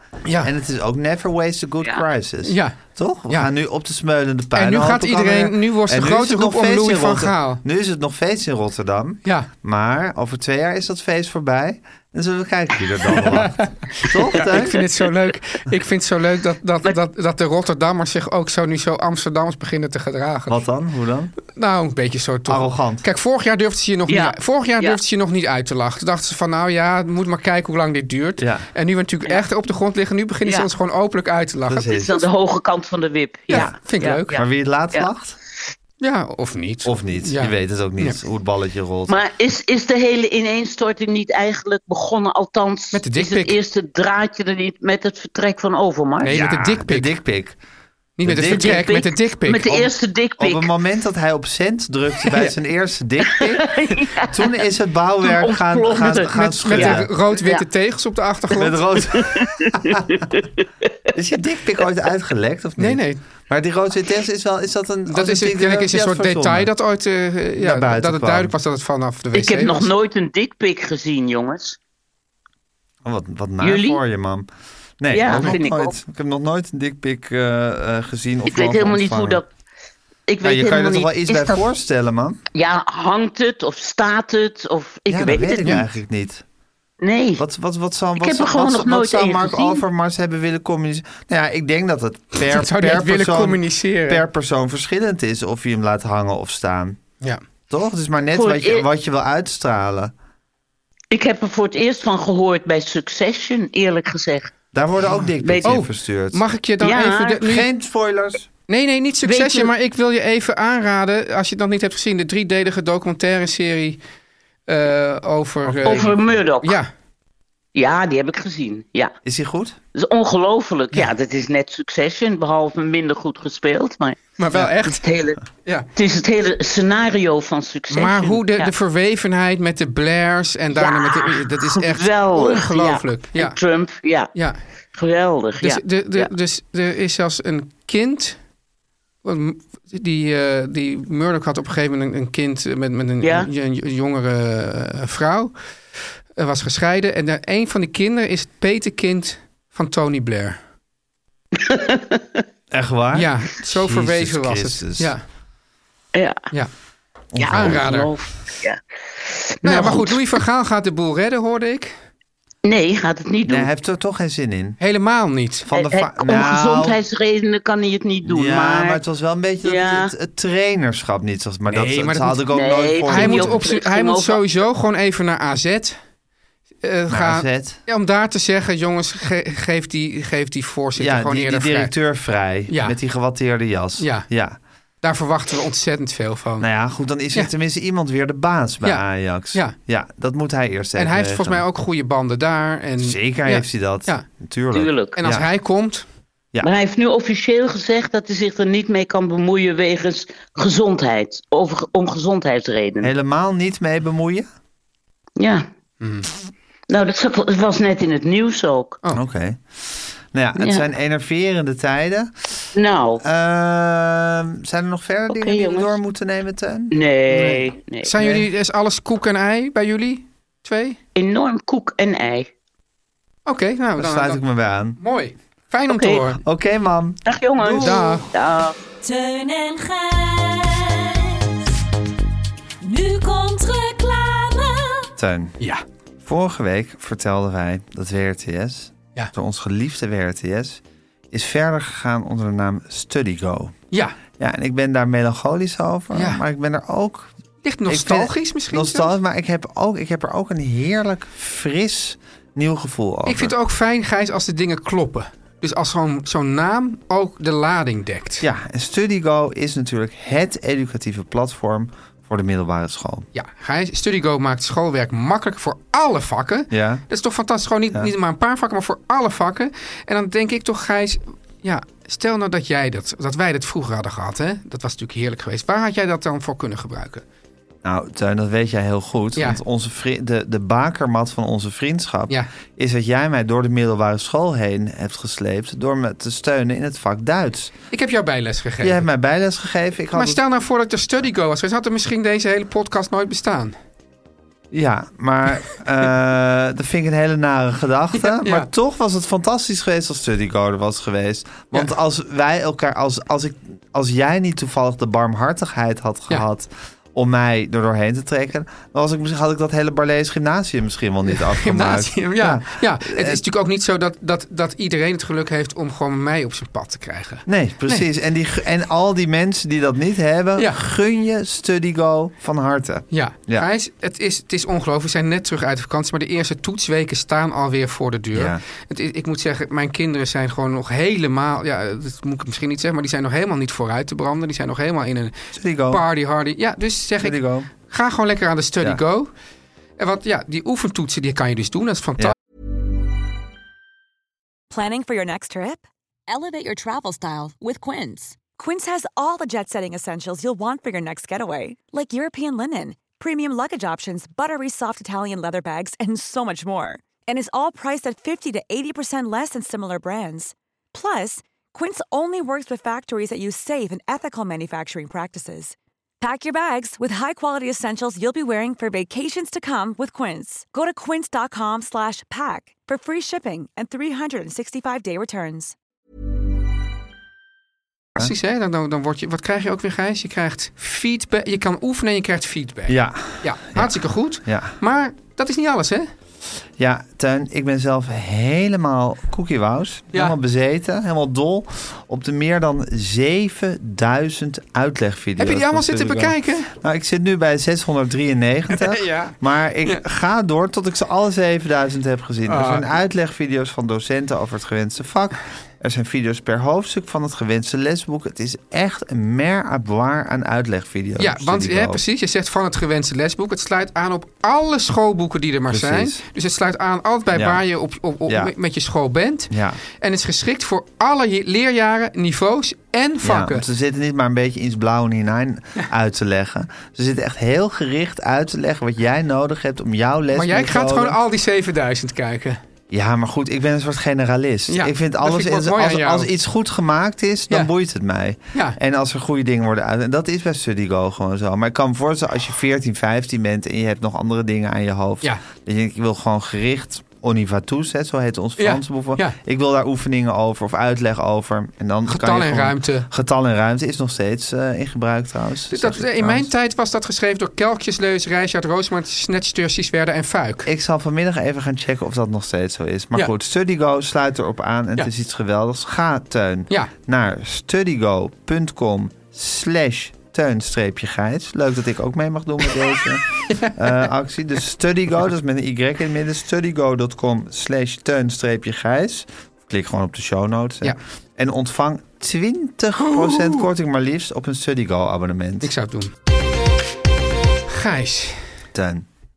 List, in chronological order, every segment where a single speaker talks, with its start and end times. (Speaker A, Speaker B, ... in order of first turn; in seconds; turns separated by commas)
Speaker A: 0.2-0.5, Speaker B: 0.4-14.8, Speaker A: 2.4-2.8, Speaker A: 4.5-7.6, Speaker A: 13.1-20.6, Speaker B: 20.5-21.3, Speaker A: 21.5-31.9, Speaker B: 22.5-23.0, Speaker C: 24.1-25.0, Speaker B: 28.4-28.6, Speaker B: 31.7-32.2, Speaker C: 31.8-35.1, Speaker A: 33.5-34.4, Speaker B: 34.3-35.4, Speaker A: 36.0-38.2, Speaker B: 36.8-39.1, Speaker C: 39.1-46.4, Speaker A: 42.9-43.6, Speaker A: 46.2-47.1, Speaker B: 46.3-47.5, Speaker A: 48.2-49.7, Speaker B: 48.2-49.0, Speaker C: 48.5-50.7, Speaker B: 49.6-57.1, Speaker C: 53.3-54.6, Speaker C: 55.2-57.6, Speaker A: 56.3-58.8, Speaker B: 58.5-60.2, Speaker C: 59.1-60.6, Speaker B: 61.1-66.7, Speaker A: 62.8-63.2, Speaker A: 65.1-69.9, Speaker B: 67.6-68.5, Speaker C: 69.3-71.8, Speaker B: 73.0-74.5, Speaker C: 73.6-74.0, Speaker B: 75.0-79.4, Speaker C: 75.1-76.0, Speaker A: 75.3-75.6, Speaker C: 78.5-79.5, Speaker C: 80.3-81.7, Speaker B: 80.4-82.4, Speaker C: 82.5-85.8, Speaker B: 85.1-86.4, Speaker C: 87.0-87.4, Speaker B: 87.4-97.0, Speaker C: 88.2-89.8, Speaker A: 92.4-94.2, Speaker B: 97.7-100.1, Speaker C: 98.3-98.8, Speaker C: 101.1-104.5, Speaker B: 104.7-106.4, Speaker C: 105.4-105.7, Speaker A: 105.6-107.7, Speaker C: 106.8-107.4, Speaker B: 107.4-108.5, Speaker A: 108.7-114.0, Speaker C: 109.2-109.7, Speaker A: 114.7-116.9, Speaker B: 115.7-116.2, Speaker C: 115.8-116.8, Speaker C: 117.7-119.1, Speaker B: 119.2-119.8, Speaker C: 119.9-125.4, Speaker A: 124.4-125.1, Speaker A: 125.6-125.9, Speaker C: 125.9-128.7, Speaker A: 127.9-133.6, Speaker C: 130.7-134.3, Speaker A: 134.3-134.6, Speaker C: 134.9-136.3, Speaker A: 135.6-138.4, Speaker A: 139.2-145.5, Speaker C: 143.2-143.5, Speaker A: 146.3-150.6, Speaker C: 151.6-152.4, Speaker B: 152.7-155.1, Speaker A: 153.1-155.2, Speaker C: 156.1-156.4, Speaker B: 157.3-157.8, Speaker C: 157.4-160.2, Speaker A: 157.4-158.1, Speaker A: 159.6-161.9, Speaker C: 162.6-163.7, Speaker B: 163.4-164.8, Speaker A: 164.8-165.7, Speaker B: 165.7-167.0, Speaker C: 165.7-169.0, Speaker B: 168.2-173.6, Speaker C: 169.6-170.1, Speaker A: 171.7-172.4, Speaker C: 172.5-174.4, Speaker A: 173.1-176.0, Speaker A: 176.8-181.9, Speaker B: 177.1-177.8, Speaker B: 181.0-184.6, Speaker A: 182.7-183.0, Speaker A: 184.0-184.3, Speaker A: 185.0-186.7, Speaker B: 186.6-191.6, Speaker A: 188.8-189.8, Speaker A: 190.9-194.2, Speaker B: 193.0-195.4, Speaker C: 194.7-195.2, Speaker A: 195.2-196.0, Speaker C: 196.6-203.1, Speaker B: 203.0-204.5, Speaker C: 205.4-205.7, Speaker A: 206.0-206.3, Speaker C: 206.9-209.0, Speaker B: 209.1-212.3, Speaker C: 210.6-210.9, Speaker C: 212.7-213.2, Speaker B: 213.2-216.9, Speaker C: 215.3-215.9, Speaker C: 216.9-218.1, Speaker A: 217.3-221.0, Speaker B: 218.2-218.4, Speaker C: 221.2-222.5, Speaker A: 223.4-224.4, Speaker B: 224.0-225.0, Speaker A: 225.0-226.4, Speaker C: 225.9-226.3, Speaker B: 226.4-228.0, Speaker C: 227.2-228.8, Speaker A: 227.7-228.3, Speaker D: 229.0-231.7, Speaker D: 232.8-235.1, Speaker B: 235.2-235.5, Speaker B: 236.2-243.7, Speaker A: 243.9-244.2, Speaker B: 244.4-247.3, Speaker A: 246.1-246.4, Speaker A: 247.6-249.1, Speaker B: 247.8-253.5, Speaker A: 253.2-258.4, Speaker B: 258.4-263.3, Speaker A: 263.3-277.2, Speaker B: 266.7-267.0, Speaker B: 277.8-287.7, Speaker A: 287.9-289.1, Speaker B: 288.8-290.4, Speaker A: 290.1-293.8, Speaker B: 294.7-313.4, Speaker A: 298.2-298.7, Speaker A: 311.3-318.1, Speaker B: 317.4-323.7, Speaker A: 323.1-335.4, Speaker B: 328.3-328.6, Speaker B: 335.5-336.0, Speaker A: 335.9-339.3, Speaker B: 337.2-337.7, Speaker A: 340.0-342.4, Speaker E: 344.7-375.7, Speaker A: 378.2-386.1, Speaker B: 382.9-384.7, Speaker B: 386.8-412.0, Speaker A: 395.4-396.7, Speaker A: 398.7-400.0, Speaker A: 402.5-402.8, Speaker A: 411.2-423.6, Speaker B: 415.7-416.2, Speaker B: 417.3-417.6, Speaker B: 418.3-418.5, Speaker B: 419.5-419.8, Speaker B: 423.2-431.2, Speaker A: 430.3-432.6, Speaker B: 432.9-456.5, Speaker A: 434.7-436.3, Speaker A: 448.6-449.4, Speaker A: 452.1-453.1, Speaker A: 455.7-460.7, Speaker B: 460.6-485.7, Speaker A: 473.4-473.8, Speaker A: 483.0-483.6, Speaker A: 485.6-486.1, Speaker A: 487.7-488.5, Speaker B: 488.7-489.1